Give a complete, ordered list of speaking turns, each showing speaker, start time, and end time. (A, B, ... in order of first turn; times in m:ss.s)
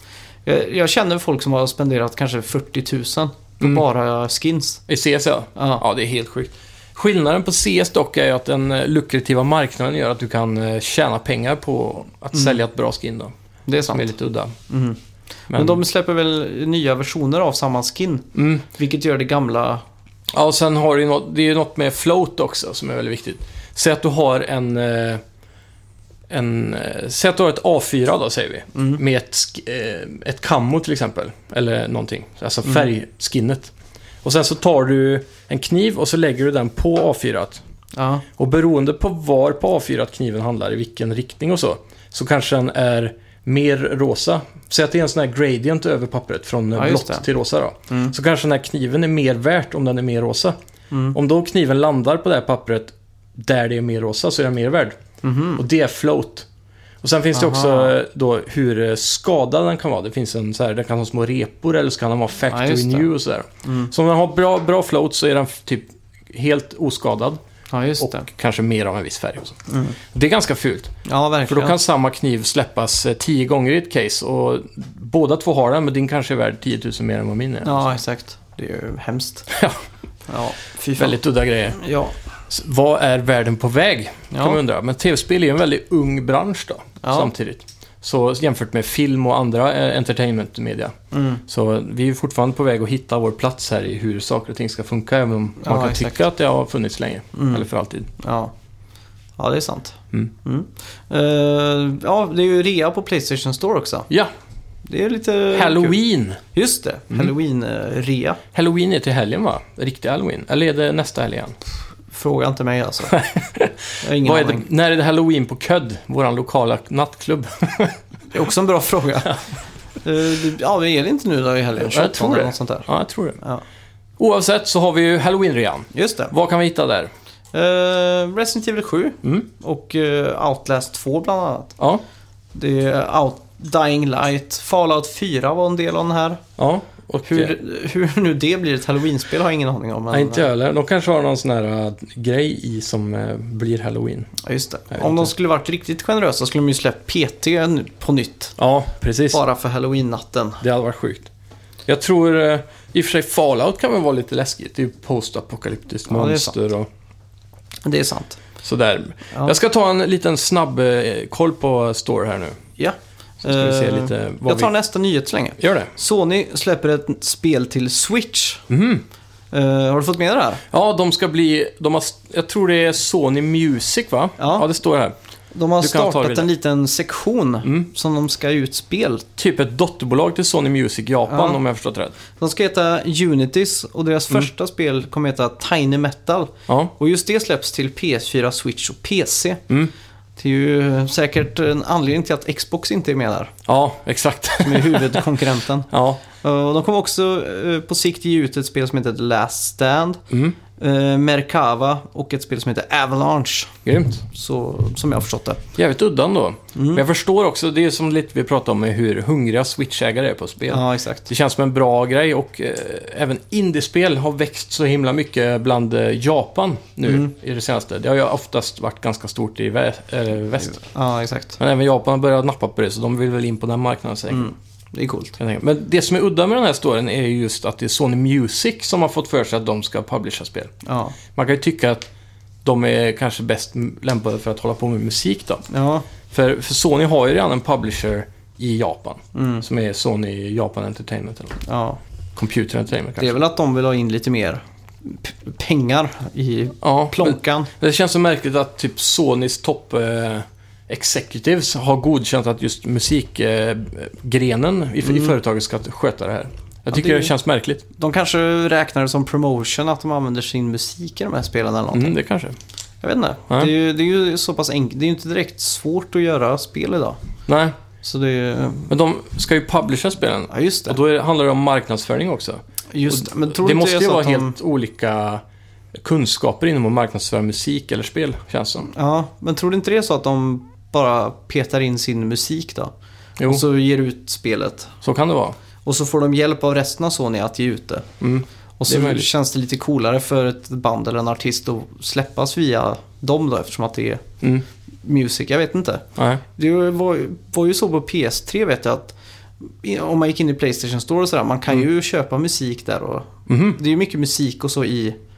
0:00.4-0:04.8 A
0:04.9-0:13.3 B
0:05.6-0:05.8 A
0:12.3-0:12.6 A
0:13.7-0:14.1 A
0:13.9-0:14.5 B
0:14.7-0:15.0 A
0:15.5-0:19.8 A
0:15.5-0:15.8 B
0:18.3-0:18.6 B
0:20.3-0:25.2 B
0:26.3-0:33.7 B
0:28.7-0:29.0 A
0:34.2-0:37.6 B
0:37.9-0:38.2 A
0:38.4-0:50.6 B
0:46.8-0:47.2 A
0:50.9-0:51.2 A
0:51.1-0:55.0 B
0:55.2-0:55.6 A
0:55.6-0:56.5 B
0:57.0-1:07.4 B
0:57.3-0:57.9 A
1:02.5-1:03.1 A
1:03.6-1:03.9 A
1:07.7-1:08.3 A
1:08.0-1:10.9 B
1:09.7-1:10.0 A
1:11.0-1:11.8 A
1:11.5-1:17.9 B
1:17.6-1:19.5 A
1:19.5-1:19.8 B
1:20.3-1:21.2 A
1:21.0-1:21.8 B
1:21.7-1:22.1 A
1:22.5-1:30.9 B
1:24.3-1:24.6 A
1:27.0-1:27.3 A
1:31.1-1:31.4 A
1:31.4-1:38.1 B
1:35.6-1:36.2 A
1:37.3-1:37.6 A
1:38.2-1:38.5 A
1:39.4-1:44.1 A
1:44.8-1:46.0 A
1:45.5-1:46.4 B
1:46.5-1:48.4 A
1:48.5-1:51.6 B
1:52.1-1:53.2 A
1:53.1-1:58.0 B
1:54.0-1:54.6 A
1:58.3-1:59.5 A
2:00.0-2:02.9 A
2:01.8-2:03.4 B
2:04.2-2:07.1 B
2:05.9-2:06.3 A
2:07.5-2:11.8 A
2:12.5-2:16.4 A
2:16.6-2:17.5 B
2:17.3-2:20.5 A
2:20.1-2:24.3 B
2:24.4-2:28.6 A
2:24.9-2:25.3 B
2:28.6-2:29.4 B
2:29.3-2:30.6 A
2:30.6-2:31.3 B
2:31.8-2:36.9 B
2:36.1-2:36.6 A
2:37.8-2:38.4 A
2:38.6-2:42.6 B
2:42.8-2:48.6 A
2:43.4-2:44.7 B
2:45.6-2:45.9 B
2:48.7-2:49.0 B
2:49.5-2:50.6 A
2:50.7-2:55.1 B
2:54.4-2:54.7 A
2:55.5-2:59.3 A
2:55.8-2:56.5 B
2:59.4-3:02.2 B
3:01.3-3:01.6 A
3:02.4-3:09.6 A
3:10.4-3:13.5 A
3:13.6-3:15.3 B
3:14.6-3:20.2 A
3:15.9-3:16.2 B
3:20.3-3:20.6 B
3:20.8-3:23.8 A
3:23.8-3:24.2 B
3:24.3-3:25.6 A
3:25.7-3:40.8 B
3:26.7-3:27.0 A
3:30.7-3:31.3 A
3:37.0-3:37.3 A
3:40.6-3:41.6 A
3:41.6-3:44.5 B
3:44.3-3:45.4 A
3:45.4-3:50.7 B
3:50.8-3:51.2 A
3:51.3-3:52.1 B
3:52.6-3:55.6 B
3:55.7-3:56.1 A
3:56.3-4:01.6 B
3:59.3-3:59.6 A
4:01.6-4:02.0 A
4:02.4-4:03.4 B
4:03.2-4:07.7 A
4:06.8-4:17.8 B
4:15.0-4:15.3 A
4:16.9-4:17.3 A
4:17.9-4:22.2 A
4:21.9-4:22.6 B
4:23.0-4:27.2 A
4:27.5-4:27.7 B
4:28.0-4:28.9 A
4:28.9-4:35.4 B
4:30.5-4:31.0 A
4:32.9-4:34.6 A
4:35.9-4:38.9 B
4:38.9-4:42.9 A
4:43.4-4:43.6 B
4:43.4-4:44.9 A
4:45.0-4:45.6 B
4:45.8-4:48.1 A
4:48.2-4:49.3 B
4:48.8-4:54.2 A
4:55.0-4:59.1 A
4:56.2-4:56.4 B
4:59.7-5:05.2 A
5:03.5-5:03.8 B